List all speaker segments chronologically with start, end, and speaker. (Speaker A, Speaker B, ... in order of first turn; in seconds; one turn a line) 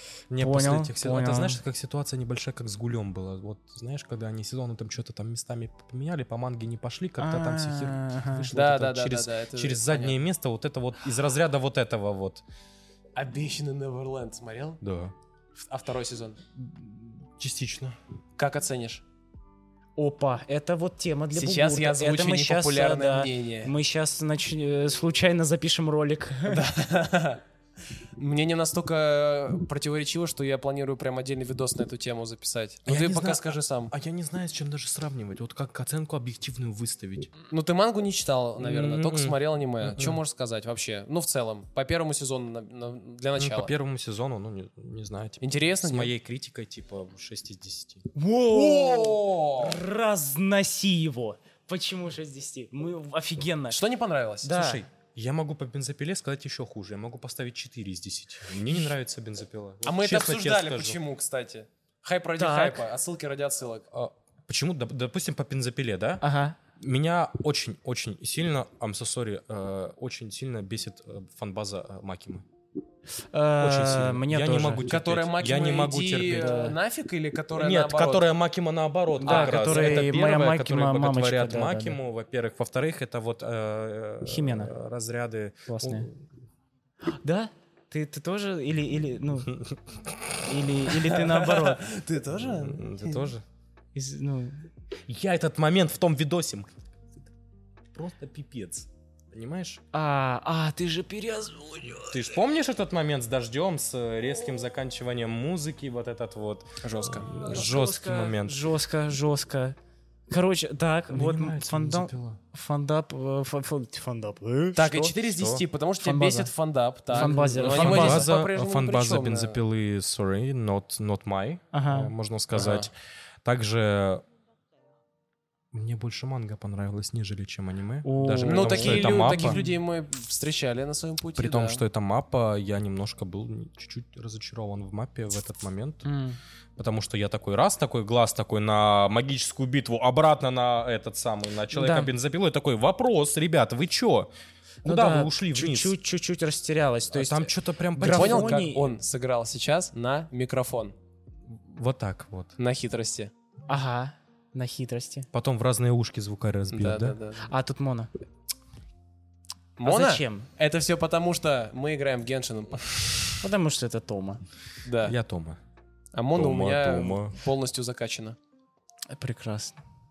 Speaker A: 0.3-12.4
Speaker B: 0.4-1.6
Speaker B: 7.2-8.5
Speaker C: 8.5-10.2
Speaker C: 13.2-14.8
Speaker A: 14.8-15.1
Speaker C: 15.6-16.4
Speaker A: 16.6-18.0
Speaker C: 18.4-19.0
Speaker B: 20.0-26.6
Speaker C: 21.3-23.7
Speaker C: 26.5-27.4
Speaker C: 28.2-33.9
Speaker A: 32.9-37.3
Speaker C: 37.5-43.7
Speaker A: 38.6-40.2
Speaker A: 43.4-48.1
Speaker C: 45.4-46.1
Speaker B: 48.1-53.8
Speaker C: 48.5-49.8
Speaker C: 53.7-54.6
Speaker B: 54.4-54.8
Speaker A: 54.5-61.0
Speaker C: 59.8-63.9
Speaker B: 62.4-62.8
Speaker A: 63.9-66.2
Speaker B: 66.2-66.6
Speaker A: 66.8-72.5
Speaker B: 73.3-74.9
Speaker A: 73.6-76.7
Speaker C: 74.9-78.3
Speaker B: 76.4-76.8
Speaker A: 77.6-86.2
Speaker B: 79.2-82.0
Speaker C: 79.2-80.1
Speaker B: 84.3-84.7
Speaker B: 85.7-86.1
Speaker B: 87.2-89.5
Speaker A: 89.5-90.2
Speaker B: 90.5-91.9
Speaker C: 91.0-93.3
Speaker A: 92.3-93.4
Speaker B: 94.0-94.7
Speaker A: 95.1-97.1
Speaker A: 97.9-99.8
Speaker B: 99.9-102.1
Speaker A: 102.1-108.6
Speaker C: 106.8-107.3
Speaker B: 107.4-109.8
Speaker B: 110.3-115.2
Speaker A: 111.1-112.4
Speaker C: 114.8-119.6
Speaker A: 115.3-115.6
Speaker B: 116.0-116.5
Speaker B: 117.1-118.3
Speaker A: 117.1-122.9
Speaker B: 121.7-122.1
Speaker C: 122.5-122.9
Speaker A: 123.4-124.2
Speaker A: 125.7-129.6
Speaker B: 128.1-129.8
Speaker C: 128.5-131.8
Speaker A: 131.4-136.1
Speaker B: 136.1-136.4
Speaker A: 136.8-144.3
Speaker B: 141.7-142.1
Speaker A: 144.8-145.9
Speaker B: 144.8-148.9
Speaker A: 147.1-148.6
Speaker C: 148.1-150.9
Speaker A: 151.5-152.5
Speaker C: 152.6-153.3
Speaker B: 153.7-155.3
Speaker A: 155.3-157.2
Speaker C: 156.7-157.5
Speaker B: 157.5-158.1
Speaker C: 159.8-163.3
Speaker B: 159.8-160.5
Speaker B: 163.4-164.4
Speaker C: 164.9-165.2
Speaker A: 165.0-165.6
Speaker C: 166.1-168.4
Speaker A: 166.3-167.4
Speaker B: 169.1-169.8